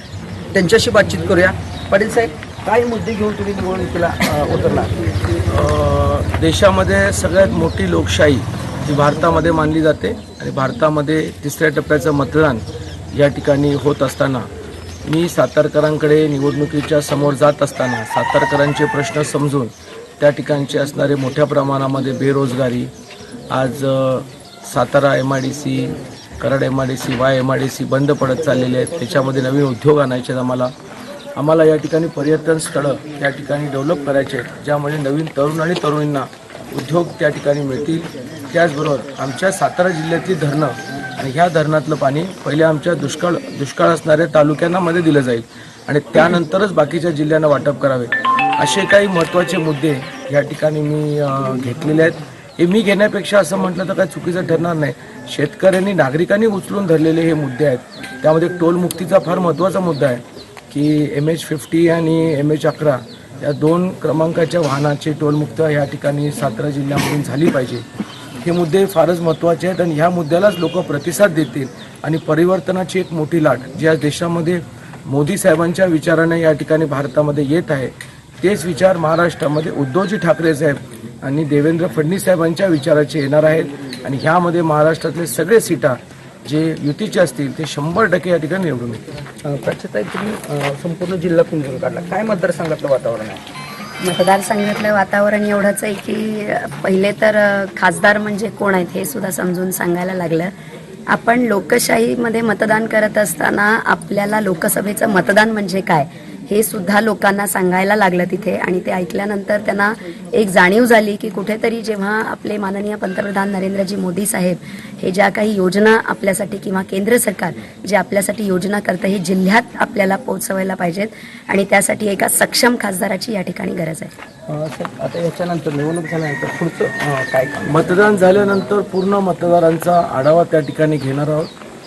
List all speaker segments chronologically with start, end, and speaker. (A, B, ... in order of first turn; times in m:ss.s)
0:00.5-0:04.9 A
0:05.4-0:14.5 B
0:15.0-0:22.9 B
0:23.5-0:30.7 B
0:31.4-1:07.8 B
1:08.4-1:29.0 B
1:29.4-1:33.4 A
1:34.0-1:40.5 C
1:41.1-2:04.1 C
2:04.5-2:08.0 A
2:07.7-2:11.5 B